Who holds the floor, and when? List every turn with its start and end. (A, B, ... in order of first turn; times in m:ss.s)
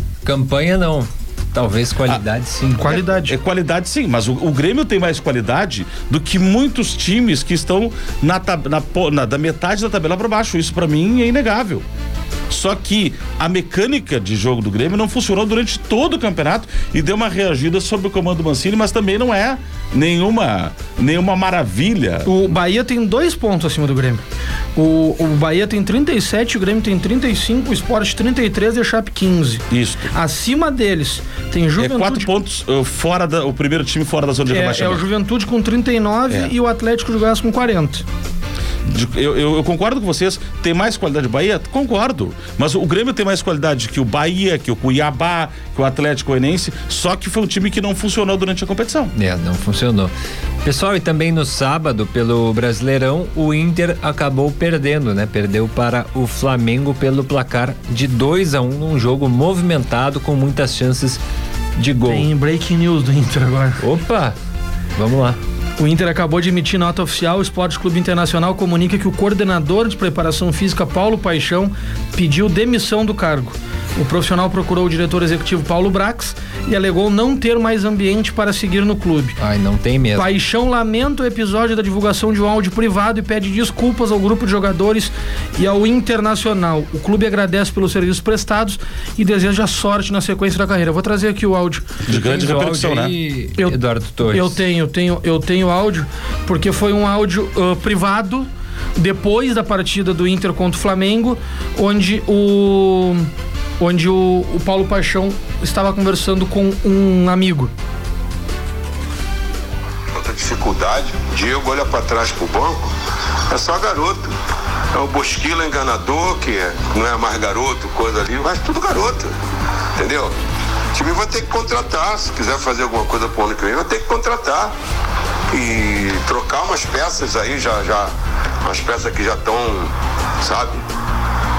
0:00.2-0:02.9 A
0:02.8-0:03.3 B
0:02.8-0:11.8 C
0:12.5-0:22.3 C
0:22.2-0:24.2 B
0:24.8-0:32.3 B
0:29.7-0:30.1 C
0:31.8-0:35.0 C
0:34.5-0:38.0 B
0:38.8-0:49.1 C
0:49.1-0:50.1 A
0:50.6-1:01.2 A
1:01.8-1:02.3 A
1:02.1-1:03.8 B
1:03.8-1:04.4 A
1:05.0-1:05.4 A
1:05.8-1:19.4 B
1:19.4-1:20.3 A
1:20.1-1:31.9 B
1:32.0-1:33.1 C
1:32.1-1:34.6 A
1:33.6-1:47.7 B
1:50.1-1:52.9 D
1:53.5-1:54.3 D
1:54.9-1:59.3 D
2:00.0-2:00.3 D
2:00.9-2:04.7 D
2:05.5-2:08.1 D
2:08.6-2:10.8 D